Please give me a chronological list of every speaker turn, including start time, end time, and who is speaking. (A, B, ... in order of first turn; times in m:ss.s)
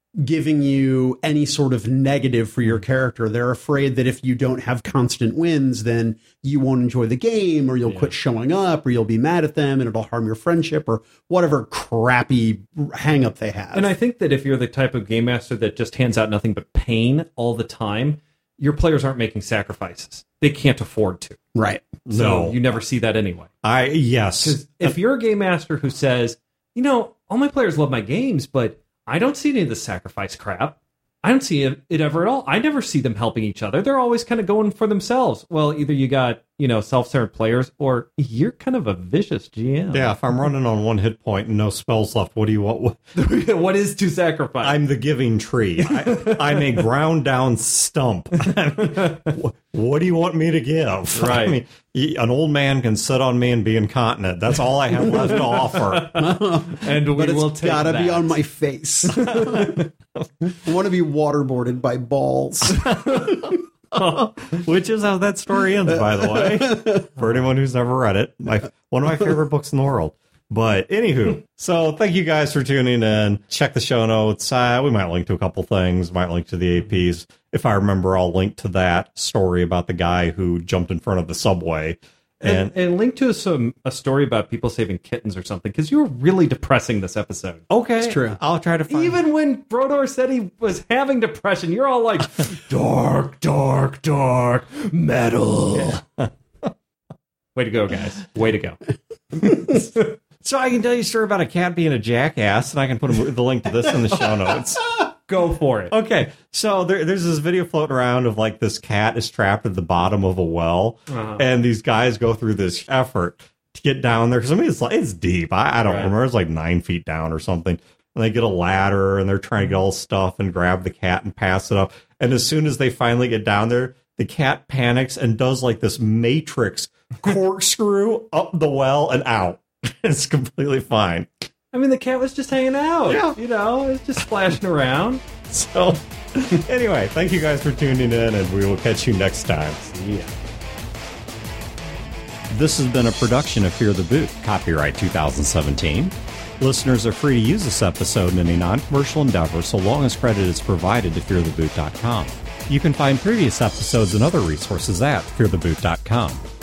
0:00.2-0:13.9 A
0:07.9-0:08.1 B
0:13.7-0:21.4 B
0:21.6-0:21.9 A
0:22.0-0:22.6 C
0:22.1-0:23.5 B
0:23.6-0:25.0 C
0:24.4-0:40.1 B
0:39.9-0:43.0 C
0:43.2-0:44.8 B
0:44.6-0:56.2 C
0:45.8-0:46.6 B
0:48.8-0:49.2 B
0:51.1-0:51.6 B
0:55.0-0:58.4 B
0:55.1-0:59.8 A
0:59.1-0:59.9 B
1:00.6-1:03.5 A
1:02.8-1:22.7 C
1:06.2-1:07.0 A
1:22.4-1:27.6 B
1:27.7-1:29.2 C
1:28.0-1:28.4 A
1:28.9-1:36.0 B
1:33.4-1:36.3 C
1:37.6-1:38.8 B
1:39.4-1:39.8 B
1:39.5-1:39.8 C
1:40.4-1:44.8 C
1:45.3-1:45.9 B
1:45.9-2:11.3 C
1:51.1-1:51.4 B
1:55.8-1:56.1 B
2:11.7-2:15.2 B
2:13.1-2:13.4 C
2:15.5-2:19.9 C
2:19.9-2:20.3 B
2:22.5-2:36.4 C